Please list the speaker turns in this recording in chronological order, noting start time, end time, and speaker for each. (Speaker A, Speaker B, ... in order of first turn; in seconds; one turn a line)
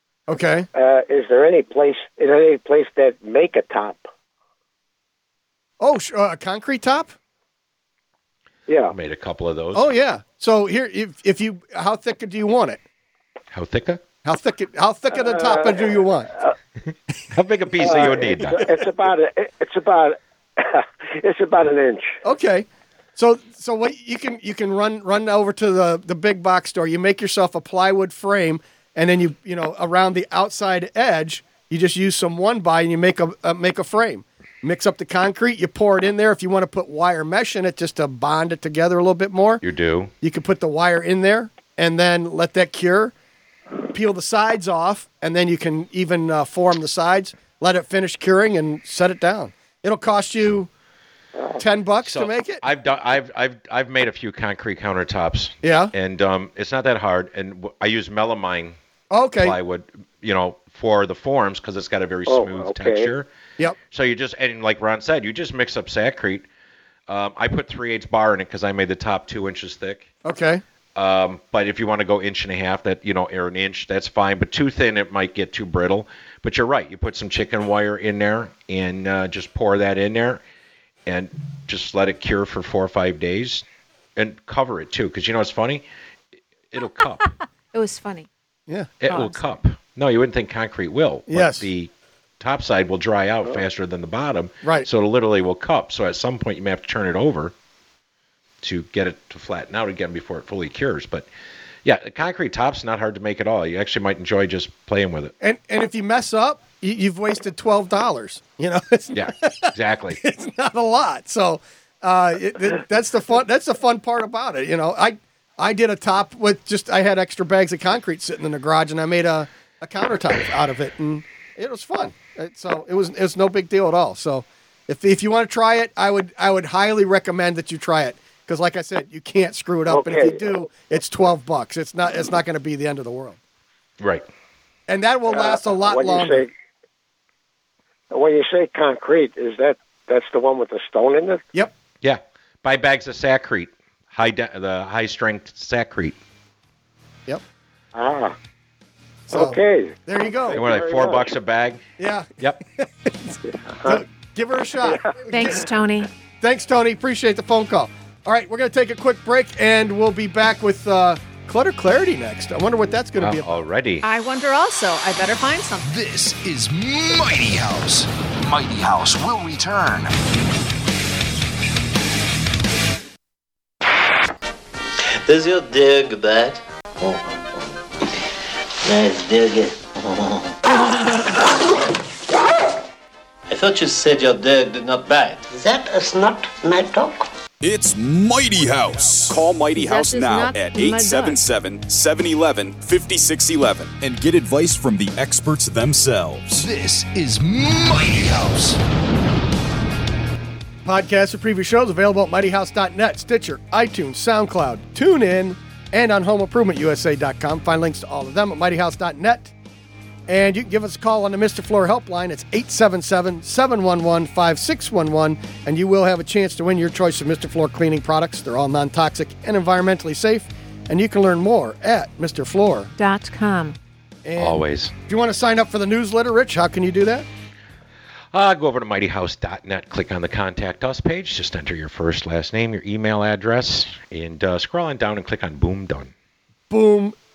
Speaker A: 0.3-0.7
Speaker B: 0.7-4.1
Speaker A: 5.8-7.1
Speaker B: 8.7-8.9
Speaker C: 8.9-9.9
Speaker A: 9.7-12.8
Speaker C: 13.5-14.0
Speaker A: 14.2-16.3
Speaker B: 15.1-16.5
Speaker C: 17.3-18.7
Speaker B: 17.8-22.2
Speaker A: 17.9-18.6
Speaker A: 22.2-39.6
Speaker C: 39.6-40.1
Speaker A: 40.2-43.1
Speaker A: 43.9-50.7
Speaker B: 51.4-51.6
Speaker A: 51.6-52.6
Speaker C: 52.0-58.8
Speaker A: 55.6-55.9
Speaker A: 59.1-59.6
Speaker C: 59.4-63.3
Speaker B: 62.3-63.1
Speaker C: 63.9-66.5
Speaker C: 67.1-70.1
Speaker A: 70.2-70.6
Speaker C: 71.0-80.4
Speaker C: 81.1-83.6
Speaker C: 84.2-85.8
Speaker C: 86.7-87.3
Speaker D: 87.2-88.3
Speaker C: 89.0-97.5
Speaker D: 89.1-89.4
Speaker A: 91.3-91.7
Speaker A: 94.6-94.9
Speaker C: 98.6-101.3
Speaker C: 101.8-105.3
Speaker A: 105.4-133.4
Speaker C: 109.1-110.2
Speaker B: 129.9-130.5
Speaker C: 134.0-134.3
Speaker A: 134.9-136.4
Speaker B: 135.3-136.5
Speaker B: 138.1-141.4
Speaker C: 142.0-146.2
Speaker B: 147.9-148.4
Speaker A: 149.3-150.6
Speaker B: 149.3-151.3
Speaker C: 150.5-151.8
Speaker A: 152.0-155.7
Speaker B: 153.7-154.0
Speaker B: 154.8-155.2
Speaker D: 155.3-156.1
Speaker A: 156.4-163.6
Speaker C: 163.2-164.1
Speaker D: 164.0-165.9
Speaker E: 165.8-170.1
Speaker F: 175.2-177.6
Speaker F: 178.8-180.6
Speaker F: 183.5-187.3
Speaker G: 187.6-196.7
Speaker D: 189.7-191.4
Speaker E: 196.5-198.8
Speaker A: 200.8-209.5
Speaker A: 210.3-222.9
Speaker D: 223.0-223.8
Speaker A: 224.2-227.3
Speaker C: 224.4-224.9
Speaker C: 228.3-236.1
Speaker A: 236.7-237.2